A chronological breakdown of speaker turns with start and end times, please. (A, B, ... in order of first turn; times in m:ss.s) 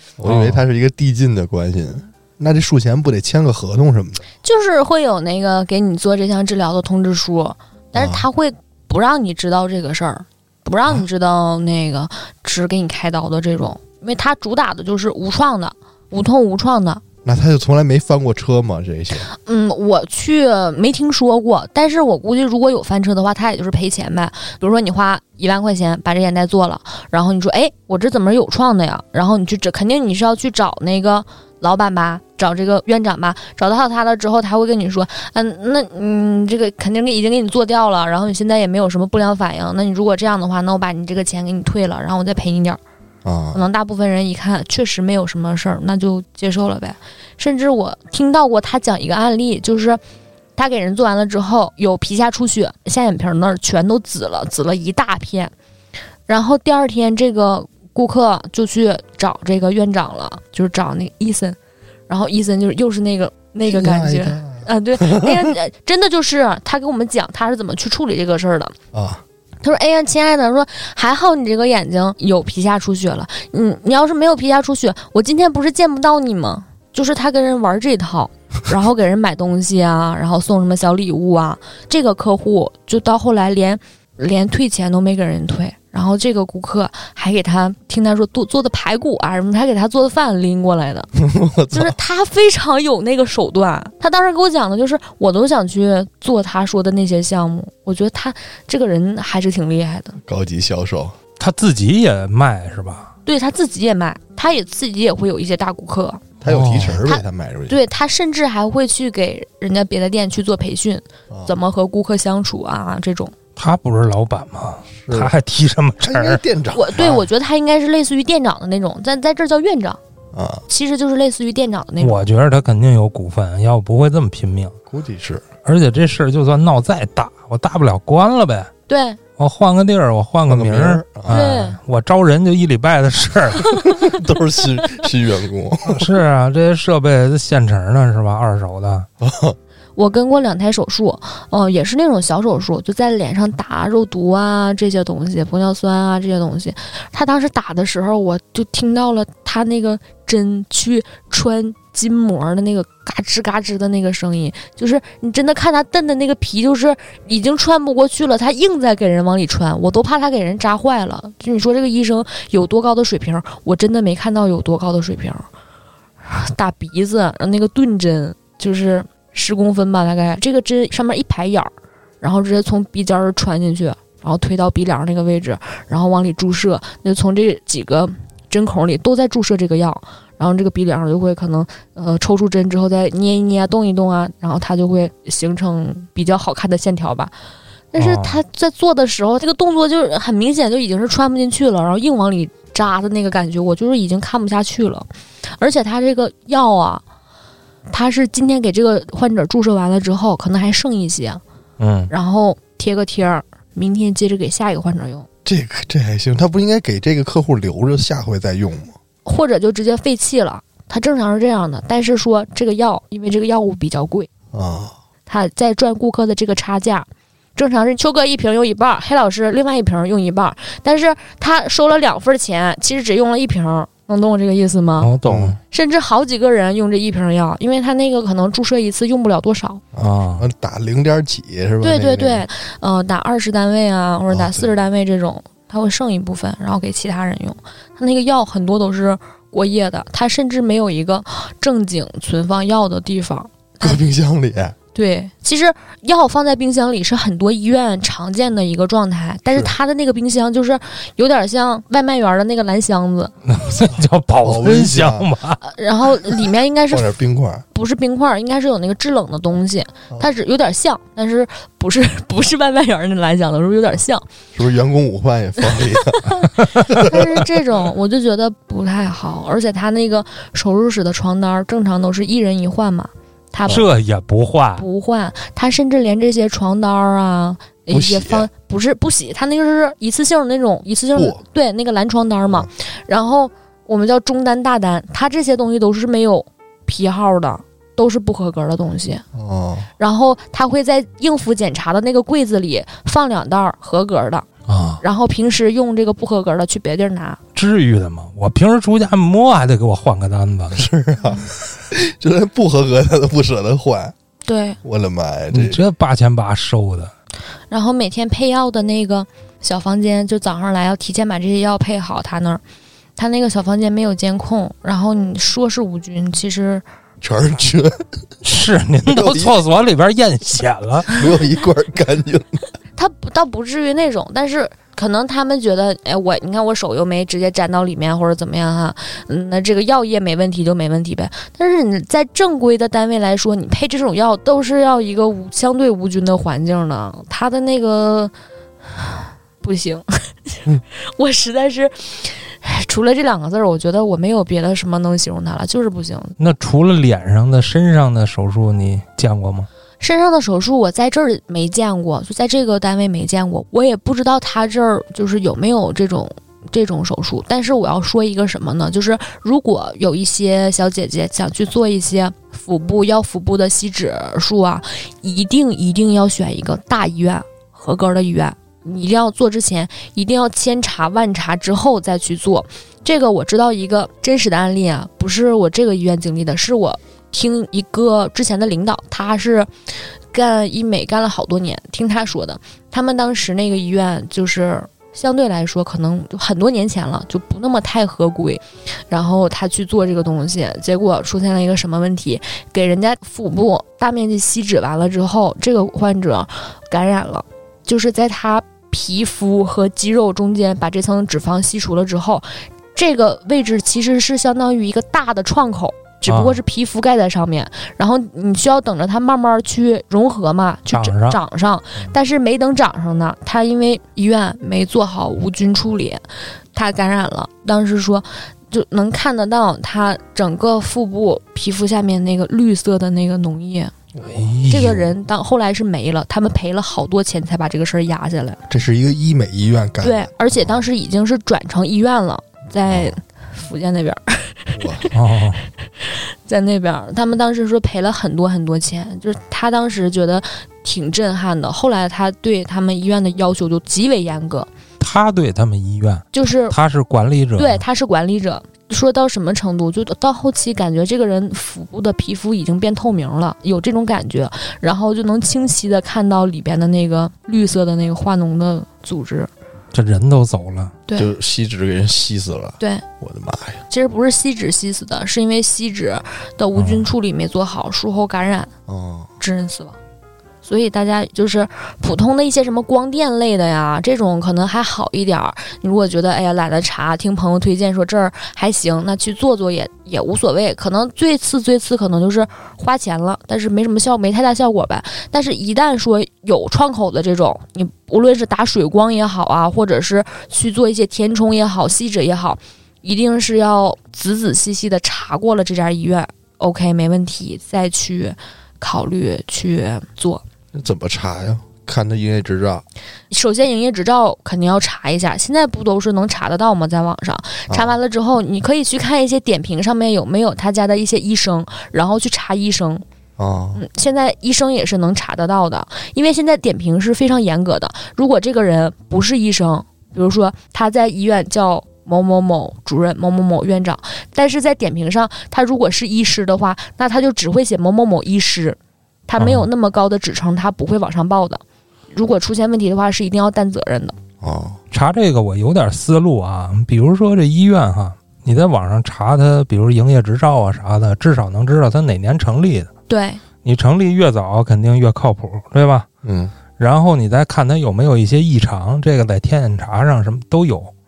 0:00.2-0:04.2 A
0:00.2-0:00.6 B
0:04.4-0:17.0 C
0:07.9-0:08.2 A
0:17.2-0:19.3 A
0:19.3-0:42.8 C
0:43.2-0:43.6 A
0:43.5-0:50.0 C
0:50.6-0:55.5 C
0:56.3-1:01.6 C
1:02.1-1:08.7 C
1:03.7-1:05.5 A
1:08.9-1:09.2 A
1:09.6-1:31.1 C
1:31.2-1:32.0 A
1:31.7-1:40.2 C
1:40.2-1:41.1 A
1:41.4-1:43.1 B
1:43.2-1:46.2 C
1:46.4-1:47.0 B
1:46.4-1:47.8 A
1:47.0-1:53.3 C
1:53.6-1:56.4 B
1:55.0-1:55.3 A
1:56.0-1:57.3 A
1:56.7-2:00.0 C
2:00.3-2:00.6 A
2:00.7-2:02.2 C
2:02.0-2:04.7 B
2:04.9-2:05.4 A
2:05.6-2:08.7 B
2:08.9-2:09.2 C
2:09.4-2:14.0 B
2:10.5-2:11.5 A
2:11.3-2:11.8 C
2:13.9-2:16.1 A
2:15.9-2:19.1 B
2:19.2-2:19.6 A
2:20.0-2:45.4 C
2:46.2-3:07.3 C
3:07.9-3:15.1 C
3:08.0-3:08.4 B
3:15.6-3:17.0 C
3:17.9-3:21.4 C
3:21.8-3:22.1 B
3:22.1-3:25.3 C
3:25.4-3:28.9 A
3:29.2-3:34.3 C
3:34.5-3:34.9 A
3:35.3-3:45.1 C
3:45.0-3:45.6 B
3:45.2-3:45.6 A
3:45.7-3:49.8 C
3:50.0-3:52.4 A
3:50.0-3:50.5 B
3:51.8-4:04.0 C
3:54.3-3:54.7 A
4:03.8-4:04.8 A
4:04.9-4:13.3 C
4:13.4-4:15.6 B
4:14.4-4:15.3 A
4:15.6-4:17.1 C
4:16.9-4:17.6 A
4:17.7-4:24.2 C
4:24.5-4:27.4 A
4:25.9-4:33.9 C
4:33.7-4:34.8 B
4:34.8-4:49.2 C
4:37.9-4:38.5 A
4:41.1-4:41.4 A
4:49.3-4:49.9 A
4:50.0-4:54.4 C
4:54.7-4:55.0 B
4:55.0-4:57.4 C
4:57.5-5:00.8 B
5:00.7-5:04.1 A
5:04.4-5:04.8 C
5:04.8-5:05.8 A
5:05.5-5:07.1 B
5:07.7-5:12.6 C
5:13.2-5:16.8 C
5:17.2-5:18.0 A
5:18.4-5:21.2 B
5:19.0-5:19.5 A
5:21.1-5:22.6 A
5:23.0-5:38.3 C
5:39.0-5:40.0 C
5:41.0-5:46.4 C
5:46.4-5:49.7 B
5:50.0-6:19.7 C
6:20.3-6:56.2 C
6:46.3-6:46.6 B
6:50.9-6:51.4 B
6:56.7-7:03.9 C
7:04.1-7:04.5 A
7:04.2-7:05.1 B
7:04.7-7:08.6 C
7:08.7-7:10.8 A
7:10.0-7:15.1 C
7:12.9-7:13.2 A
7:14.7-7:15.1 A
7:15.1-7:15.6 B
7:16.0-7:24.7 C
7:25.0-7:27.8 B
7:26.3-7:26.8 C
7:27.6-7:39.5 C
7:39.9-7:40.9 B
7:41.2-7:43.8 A
7:43.9-7:48.7 C
7:46.8-7:47.0 B
7:48.9-7:49.3 A
7:49.4-7:50.0 C
7:50.6-8:20.4 C
8:20.7-8:22.8 A
8:23.3-8:33.0 C
8:27.7-8:28.0 A
8:33.4-8:33.8 A
8:33.7-8:54.1 C
8:49.4-8:49.7 B
8:54.4-8:54.8 A
8:54.9-9:02.9 B
9:03.1-9:03.4 C
9:03.6-9:06.1 B
9:06.2-9:06.5 A
9:06.8-9:10.9 B